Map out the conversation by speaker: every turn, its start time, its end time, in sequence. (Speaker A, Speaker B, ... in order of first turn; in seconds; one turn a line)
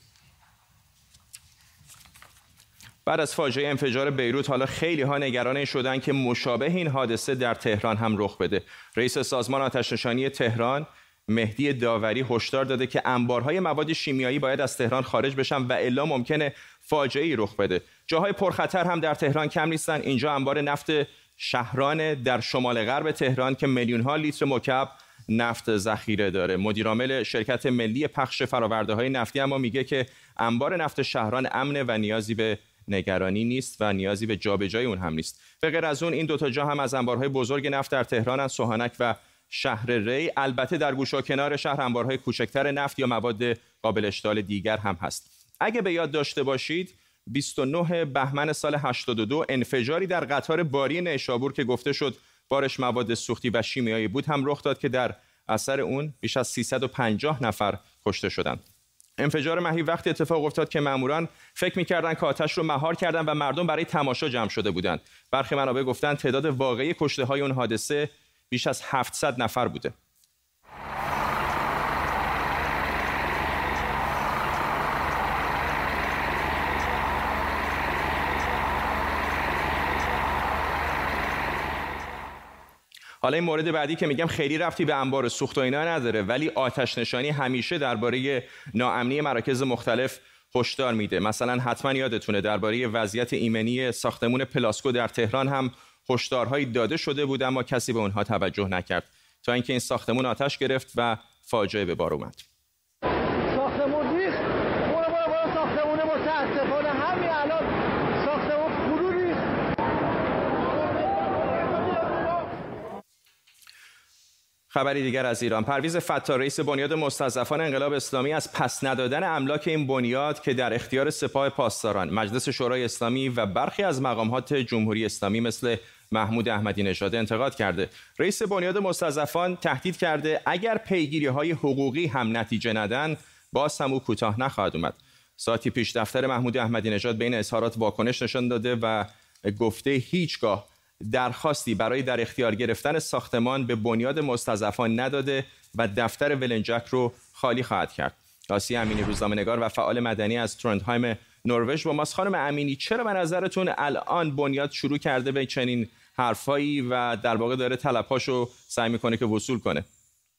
Speaker A: 3.0-58.6
Speaker A: 59.2-69.9
Speaker A: 83.2-102.4
Speaker A: 114.7-159.8